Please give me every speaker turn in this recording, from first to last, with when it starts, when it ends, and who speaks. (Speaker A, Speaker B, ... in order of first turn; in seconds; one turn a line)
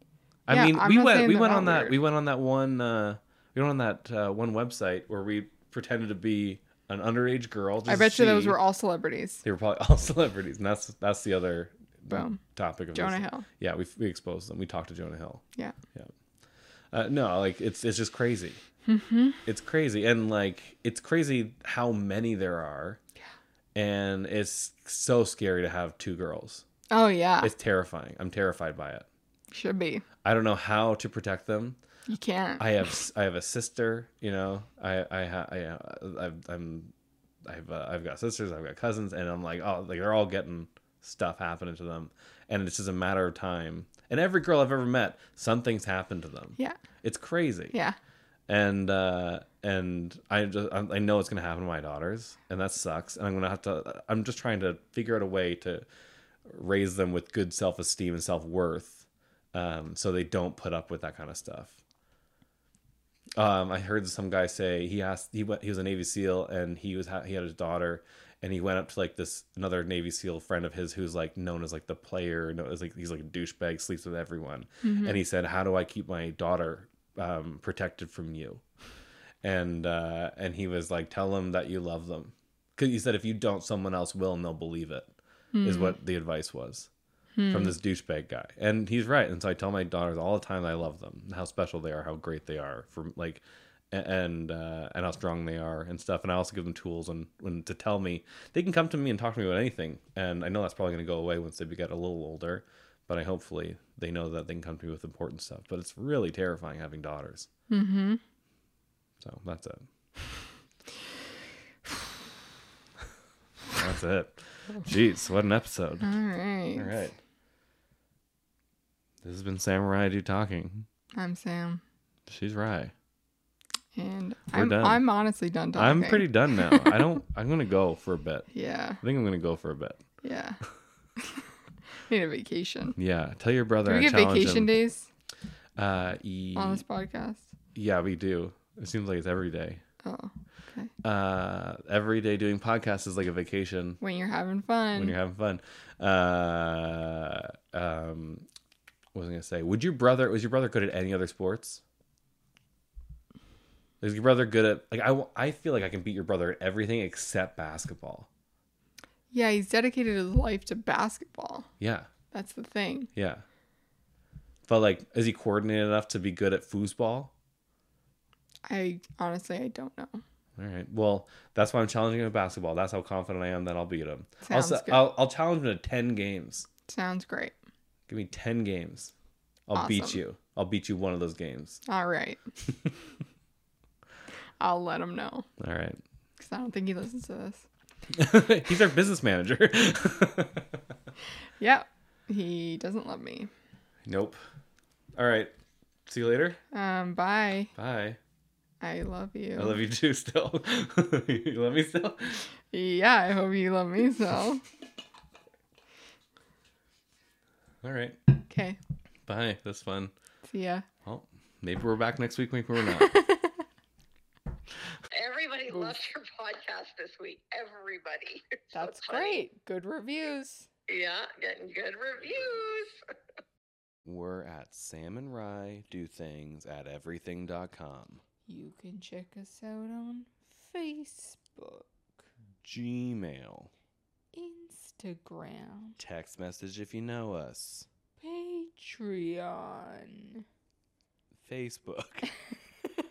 Speaker A: 0.5-8.6
Speaker B: 0.5-2.0
Speaker B: 7.9-9.4
Speaker A: 9.4-16.1
Speaker B: 12.1-12.4
Speaker B: 12.9-13.5
Speaker A: 16.9-18.6
Speaker B: 18.9-19.4
Speaker A: 19.4-23.0
Speaker A: 23.7-26.6
Speaker B: 26.9-27.5
Speaker A: 27.4-29.1
Speaker B: 29.5-30.0
Speaker A: 30.2-31.8
Speaker B: 32.1-32.7
Speaker A: 32.6-36.9
Speaker A: 37.4-47.8
Speaker A: 48.5-55.9
Speaker A: 56.5-61.8
Speaker A: 63.3-78.6
Speaker B: 74.8-75.2
Speaker A: 79.4-85.1
Speaker B: 85.5-86.0
Speaker A: 85.6-86.9
Speaker B: 87.3-87.7
Speaker A: 87.5-107.5
Speaker B: 107.7-108.2
Speaker A: 109.2-109.8
Speaker A: 113.7-116.1
Speaker B: 116.0-117.0
Speaker A: 116.8-117.2
Speaker A: 119.2-120.9
Speaker B: 121.2-121.8
Speaker A: 122.3-122.9
Speaker B: 124.0-126.9
Speaker A: 124.5-125.0
Speaker A: 125.7-128.5
Speaker B: 128.5-129.0
Speaker A: 129.0-130.0
Speaker B: 130.2-130.6
Speaker B: 132.1-133.0
Speaker A: 133.0-134.7
Speaker B: 133.8-135.1
Speaker A: 135.8-136.8
Speaker B: 136.6-137.5
Speaker A: 137.7-139.8
Speaker B: 140.0-140.9
Speaker A: 141.0-144.0
Speaker B: 144.0-145.2
Speaker A: 144.9-148.4
Speaker A: 149.1-151.8
Speaker A: 154.0-158.3
Speaker B: 159.3-161.7
Speaker A: 161.8-162.1
Speaker B: 162.3-163.1
Speaker A: 163.2-163.4
Speaker A: 164.7-167.3
Speaker B: 168.7-170.2
Speaker A: 170.6-176.7
Speaker B: 174.4-175.0
Speaker B: 176.9-177.5
Speaker A: 178.1-179.1
Speaker A: 179.7-181.8
Speaker B: 179.7-180.2
Speaker B: 181.8-182.4
Speaker B: 184.6-185.5
Speaker A: 185.6-186.0
Speaker B: 186.4-187.7
Speaker A: 188.1-190.8
Speaker B: 191.6-193.5
Speaker A: 194.0-194.4
Speaker A: 195.2-195.5
Speaker A: 196.1-196.6
Speaker B: 196.7-197.7
Speaker A: 197.8-198.2
Speaker B: 198.8-199.8
Speaker A: 199.6-202.5
Speaker B: 202.7-204.6
Speaker A: 207.8-208.2
Speaker B: 208.5-208.8
Speaker A: 209.2-210.1
Speaker B: 210.4-210.8
Speaker A: 211.0-213.1
Speaker B: 213.0-213.5
Speaker C: 215.1-219.4
Speaker B: 215.7-216.0
Speaker B: 218.7-220.7
Speaker C: 220.9-223.0
Speaker A: 224.0-228.2
Speaker B: 228.5-232.2
Speaker A: 232.6-233.7
Speaker B: 234.3-236.0
Speaker A: 236.0-237.9
Speaker B: 238.2-240.4
Speaker A: 241.4-242.3